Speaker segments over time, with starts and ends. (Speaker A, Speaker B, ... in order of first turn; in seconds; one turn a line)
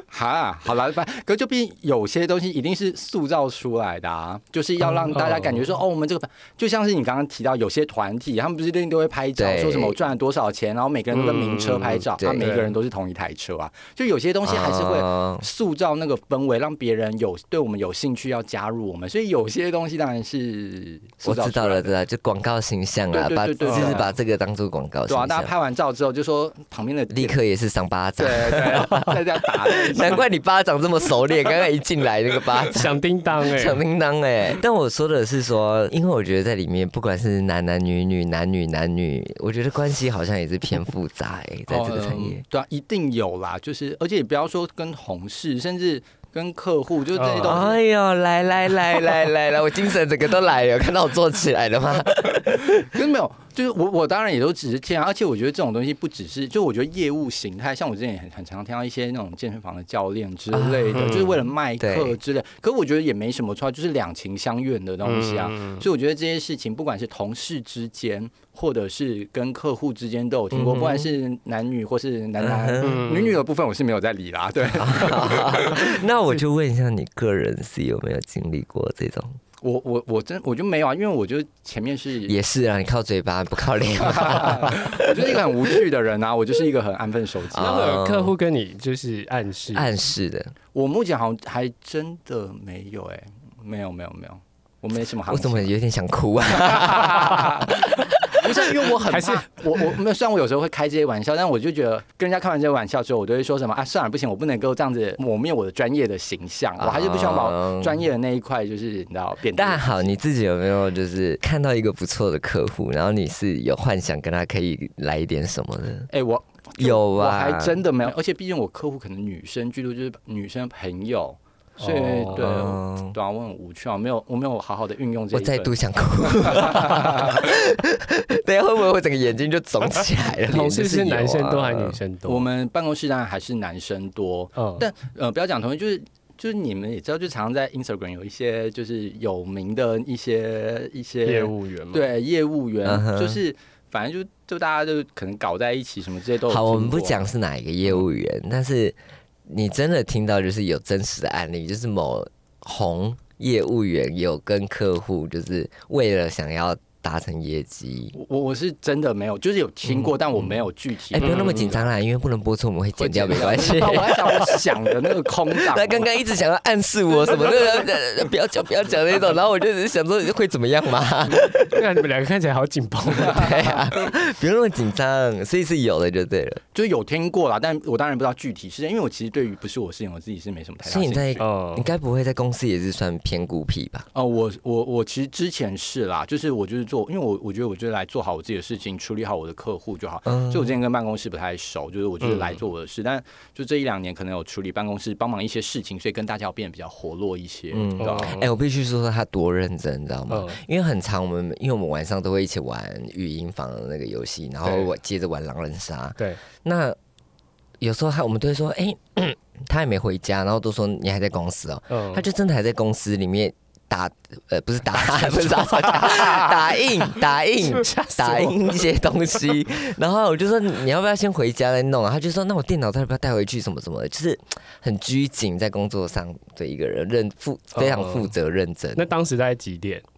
Speaker A: 0.1-21.9
Speaker B: 5.1-5.6
Speaker C: 9.4-10.0
Speaker B: 11.1-12.8
Speaker C: 12.2-12.5
Speaker C: 14.4-15.5
Speaker C: 21.2-25.5
Speaker A: 23.1-24.1
Speaker B: 23.6-24.0
Speaker A: 25.1-27.4
Speaker C: 27.1-42.4
Speaker A: 28.2-30.2
Speaker B: 32.7-33.8
Speaker A: 41.7-47.8
Speaker B: 47.2-47.6
Speaker C: 47.4-53.0
Speaker A: 52.6-76.0
Speaker C: 60.5-62.2
Speaker B: 61.0-61.3
Speaker B: 65.0-65.9
Speaker C: 70.5-71.1
Speaker C: 72.4-73.0
Speaker B: 72.8-73.4
Speaker C: 74.8-79.4
Speaker A: 79.6-82.4
Speaker C: 82.3-85.8
Speaker A: 84.0-87.8
Speaker C: 87.5-88.3
Speaker B: 87.6-89.9
Speaker C: 89.7-90.5
Speaker A: 90.7-95.7
Speaker C: 95.3-98.4
Speaker A: 96.5-110.2
Speaker B: 99.1-99.5
Speaker C: 106.8-108.0
Speaker C: 109.5-116.1
Speaker A: 116.1-127.4
Speaker C: 116.8-117.8
Speaker B: 121.8-122.5
Speaker C: 122.3-123.2
Speaker C: 125.3-132.0
Speaker B: 130.5-132.5
Speaker A: 132.3-147.2
Speaker B: 134.6-134.9
Speaker B: 141.2-142.1
Speaker C: 142.8-143.4
Speaker C: 146.5-158.2
Speaker A: 158.2-161.9
Speaker C: 159.9-160.5
Speaker C: 161.1-164.7
Speaker B: 161.2-161.7
Speaker A: 163.0-166.1
Speaker C: 165.6-171.8
Speaker A: 167.3-167.8
Speaker B: 171.7-173.7
Speaker C: 173.2-176.6
Speaker A: 176.7-181.5
Speaker C: 180.8-184.1
Speaker B: 181.4-181.9
Speaker A: 184.1-198.3
Speaker C: 190.3-190.8
Speaker B: 192.2-192.6
Speaker C: 197.7-207.0
Speaker B: 198.0-198.5
Speaker B: 200.3-200.6
Speaker C: 207.8-229.1
Speaker B: 211.9-212.2
Speaker B: 215.0-216.5
Speaker B: 217.6-218.6
Speaker B: 227.8-228.3
Speaker B: 229.0-230.0